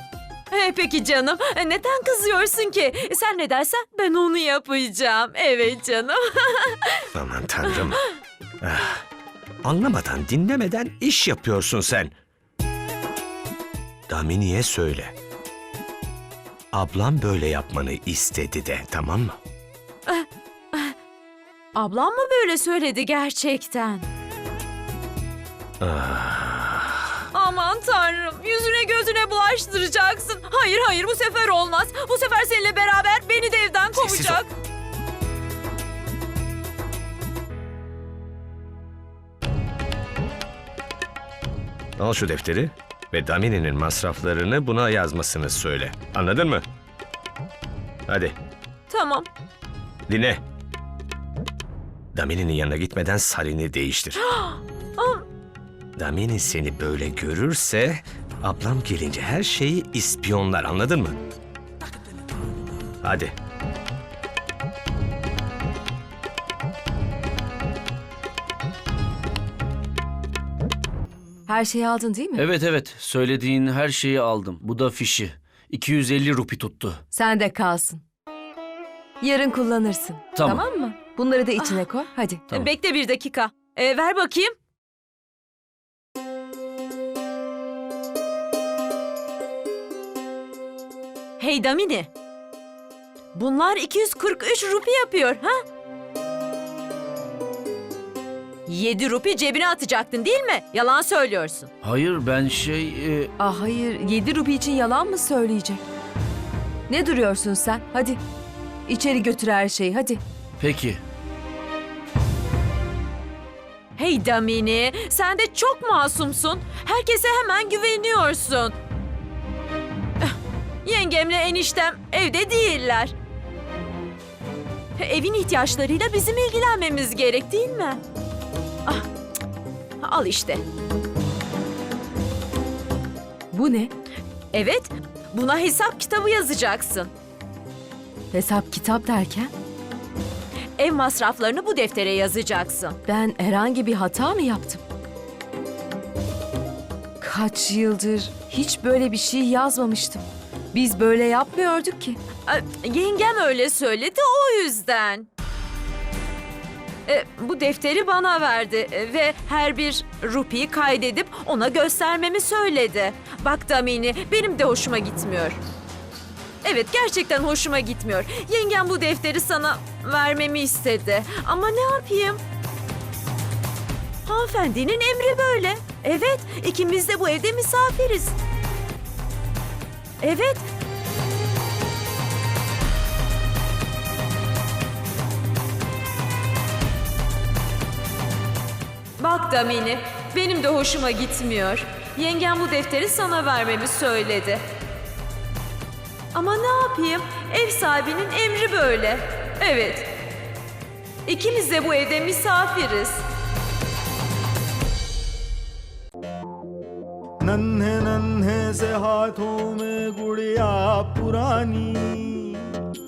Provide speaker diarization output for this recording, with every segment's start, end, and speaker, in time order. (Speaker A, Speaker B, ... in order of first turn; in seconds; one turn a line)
Speaker A: 0.5-7.0
Speaker B: 7.1-8.0
Speaker B: 8.6-9.0
Speaker B: 9.6-12.1
Speaker B: 14.1-15.1
Speaker B: 16.7-19.4
Speaker A: 20.1-20.9
Speaker A: 21.7-24.1
Speaker B: 25.8-27.0
Speaker A: 27.3-34.5
Speaker B: 33.9-34.4
Speaker B: 42.0-46.6
Speaker B: 48.1-48.4
Speaker A: 48.9-49.3
Speaker B: 50.1-50.4
Speaker B: 52.1-54.2
Speaker A: 54.4-55.2
Speaker B: 56.0-61.2
Speaker B: 63.0-63.3
Speaker C: 71.5-72.4
Speaker D: 72.3-77.0
Speaker C: 77.1-78.0
Speaker C: 79.2-82.4
Speaker D: 80.3-80.7
Speaker A: 81.6-81.9
Speaker A: 82.5-84.5
Speaker A: 91.4-92.1
Speaker A: 93.3-95.6
Speaker A: 98.7-101.7
Speaker D: 101.8-103.3
Speaker C: 103.4-105.8
Speaker C: 106.9-108.2
Speaker C: 108.9-110.2
Speaker D: 110.6-111.0
Speaker A: 114.0-118.7
Speaker A: 120.8-123.1
Speaker A: 125.0-128.0
Speaker A: 130.0-130.6
Speaker C: 133.5-133.9
Speaker A: 134.5-137.1
Speaker C: 138.3-139.5
Speaker A: 140.8-143.0
Speaker C: 143.1-144.8
Speaker C: 147.2-152.2
Speaker A: 152.5-155.3
Speaker A: 157.1-165.6
Speaker A: 166.6-172.4
Speaker A: 174.2-178.4
Speaker A: 180.2-180.7
Speaker A: 189.2-194.6
Speaker A: 196.3-200.1
Speaker A: 201.2-203.2
Speaker E: 207.4-212.7